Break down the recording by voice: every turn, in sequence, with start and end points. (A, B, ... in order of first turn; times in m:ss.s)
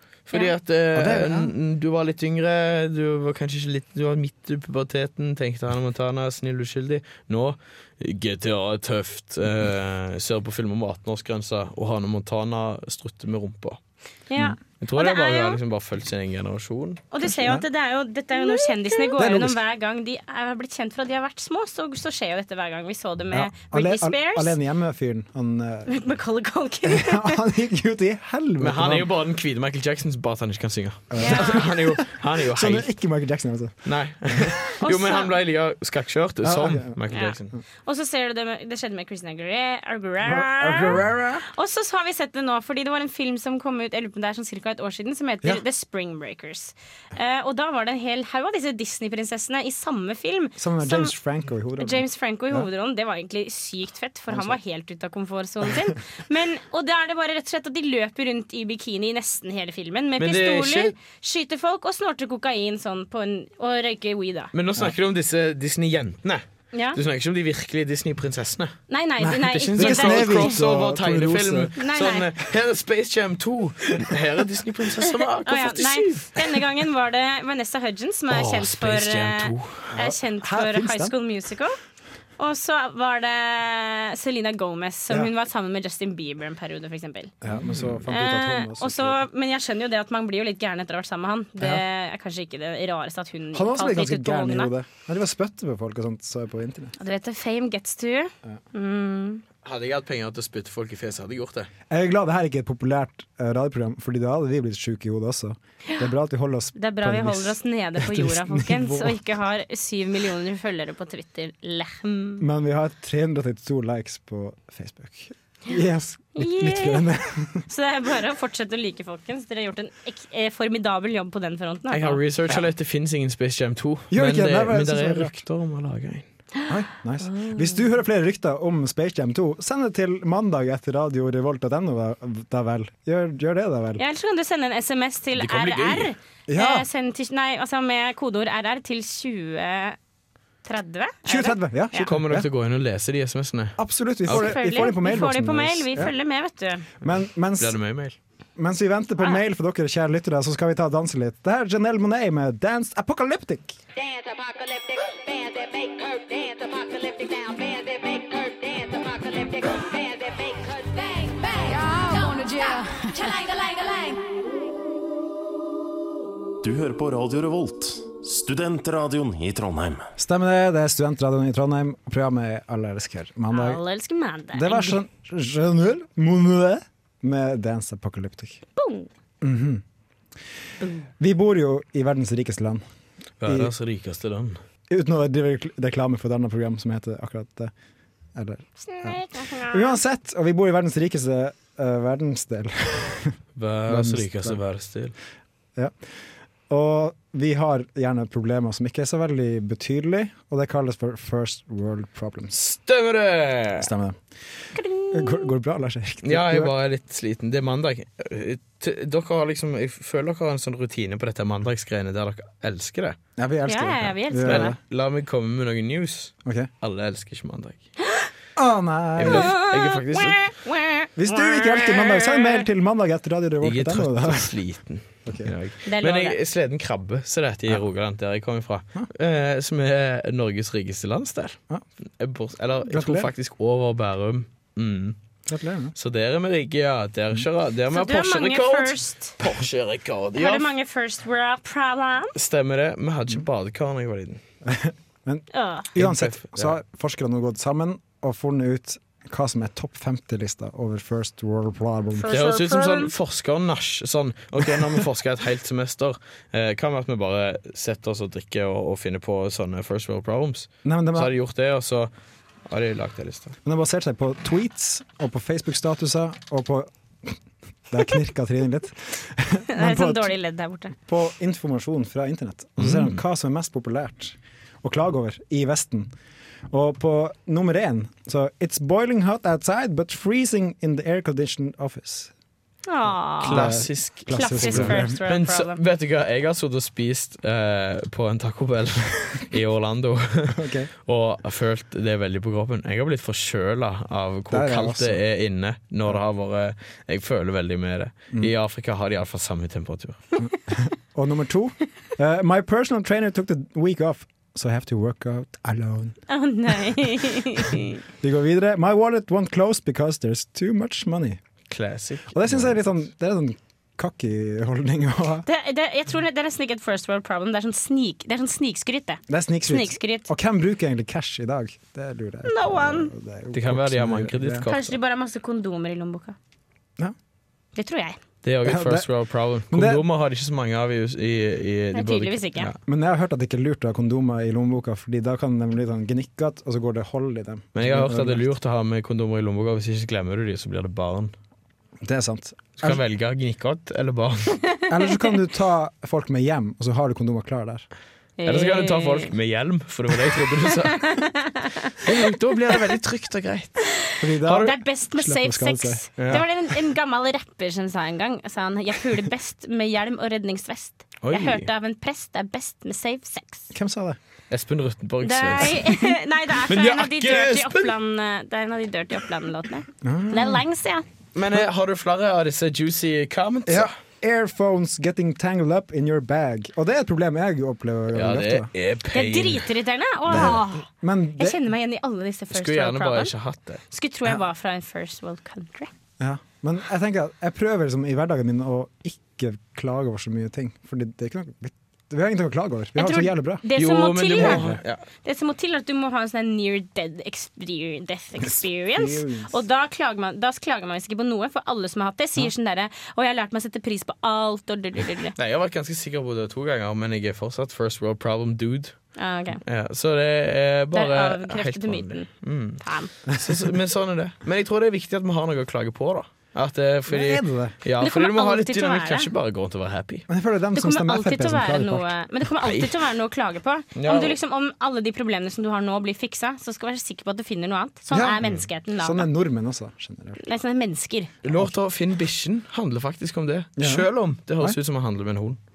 0:00.2-0:13.8 A
0:00.9-0:01.5 B
0:14.3-0:15.6 C
0:14.8-0:17.0 A
0:17.1-0:24.6 C
0:17.2-0:17.6 B
0:18.4-0:19.6 B
0:23.3-0:25.9 B
0:25.9-0:27.4 C
0:26.8-0:29.1 B
0:28.6-0:32.9 A
0:31.1-0:34.5 B
0:31.2-0:31.6 C
0:33.8-0:37.5 A
0:34.8-0:35.3 C
0:36.4-0:37.0 B
0:37.1-0:51.1 C
0:40.2-0:41.4 B
0:50.6-0:52.7 B
0:51.8-1:04.5 C
0:54.3-0:54.6 B
1:00.2-1:00.9 A
1:04.5-1:08.8 A
1:06.7-1:07.0 C
1:08.9-1:10.6 C
1:09.2-1:11.7 B
1:09.5-1:16.6 A
1:11.8-1:12.3 C
1:15.4-1:21.8 C
1:18.3-1:19.9 A
1:19.9-1:21.1 B
1:22.4-1:27.3 C
1:27.4-1:29.2 B
1:27.5-1:28.0 A
1:28.1-1:34.7 C
1:31.6-1:31.8 B
1:33.5-1:36.9 B
1:37.0-1:39.4 C
1:39.6-1:41.7 A
1:41.9-1:49.2 B
1:46.8-1:52.4 C
1:52.4-1:57.6 B
1:56.4-1:57.1 C
1:57.6-2:02.2 C
2:01.9-2:06.3 A
2:04.1-2:05.3 B
2:06.7-2:14.0 B
2:07.2-2:07.7 C
2:14.0-2:20.0 C
2:15.3-2:16.1 A
2:16.5-2:16.9 B
2:20.6-2:22.1 C
2:21.2-2:22.5 B
2:22.1-2:24.8 A
2:23.8-2:26.1 B
2:24.3-2:26.8 C
2:27.0-2:27.8 B
2:27.0-2:28.2 A
2:28.6-2:33.8 B
2:34.0-2:44.4 D
2:46.6-2:50.1 E
2:50.2-2:53.8 B
2:53.5-2:55.0 C
2:54.5-2:58.6 B
2:58.8-2:59.1 C
2:59.4-2:59.8 B
3:01.2-3:02.8 B
3:03.4-3:04.6 A
3:03.4-3:03.7 B
3:04.9-3:07.7 B
3:08.3-3:13.4 B
3:08.8-3:10.0 C
3:13.6-3:15.1 A
3:13.9-3:14.6 B
3:16.7-3:22.6 B
3:22.6-3:23.9 A
3:23.8-3:24.2 B
3:24.7-3:25.5 C
3:25.1-3:26.7 B
3:26.2-3:33.2 A
3:33.4-3:34.8 B
3:33.7-3:34.7 C
3:34.4-3:37.8 A
3:36.4-3:36.7 B
3:38.6-3:39.5 B
3:39.2-3:40.4 A
3:39.2-3:42.6 C
3:41.2-3:44.5 B
3:43.6-3:51.6 A
3:45.2-3:45.5 B
3:45.8-3:46.4 C
3:52.2-3:55.2 A
3:52.9-3:53.3 B
3:55.5-3:55.9 B
3:56.0-4:00.7 A
3:57.9-3:59.3 C
4:00.4-4:02.3 C
4:02.3-4:04.4 A
4:04.6-4:12.3 B
4:05.5-4:05.9 C
4:06.0-4:06.8 A
4:12.2-4:13.1 C
4:12.3-4:22.1 A
4:20.8-4:21.3 B
4:22.7-4:23.6 A
4:23.6-4:27.4 B
4:27.9-4:30.3 B
4:29.7-4:31.0 C
4:31.0-4:36.1 B
4:32.8-4:33.2 A
4:36.7-4:42.3 B
4:42.9-4:45.8 C
4:43.4-5:00.2 A
4:43.5-4:45.2 B
4:50.5-4:50.9 B
4:54.5-4:55.2 B
5:00.4-5:06.2 B
5:06.3-5:08.0 C
5:08.2-5:11.4 B
5:11.7-5:13.0 A
5:12.3-5:15.4 B
5:15.4-5:20.3 C
5:19.3-5:24.7 B
5:22.4-5:23.1 C
5:23.5-5:24.9 A
5:24.6-5:26.4 C
5:27.8-5:28.2 C
5:28.4-5:32.7 A
5:28.6-5:29.1 B
5:29.7-5:30.0 B
5:31.9-5:32.7 C
5:32.8-5:38.5 B
5:37.7-5:41.3 A
5:42.0-5:43.0 B
5:42.8-5:44.6 A
5:44.9-5:47.9 B
5:48.4-5:49.3 C
5:48.4-5:51.2 A
5:51.0-5:51.9 C
5:52.0-5:53.9 A
5:54.0-6:03.7 C
5:54.2-5:56.4 B
5:54.4-5:54.7 A
5:56.2-5:56.4 A
6:01.2-6:01.7 A
6:03.7-6:04.2 B
6:04.5-6:06.0 A
6:05.2-6:11.0 C
6:06.7-6:07.9 A
6:10.0-6:10.6 B
6:11.3-6:13.9 A
6:13.6-6:18.7 B
6:18.1-6:19.7 A
6:19.1-6:23.3 C
6:20.3-6:21.6 B
6:22.5-6:23.8 A
6:23.9-6:25.9 C
6:26.2-6:33.6 B
6:33.0-6:34.6 C
6:33.7-6:35.0 A
6:34.4-6:34.8 B
6:35.2-6:45.3 C
6:38.4-6:39.5 B
6:45.4-6:49.0 A
6:49.2-6:49.6 C
6:49.6-7:00.2 A
6:50.9-6:52.3 C
6:52.8-6:53.1 C
6:57.1-6:57.7 B
6:58.0-6:59.3 C
7:00.3-7:02.1 B
7:00.7-7:09.3 C
7:02.6-7:02.9 A
7:03.9-7:04.4 A
7:08.1-7:10.4 B
7:10.4-7:11.3 C
7:11.4-7:15.6 A
7:13.8-7:14.1 B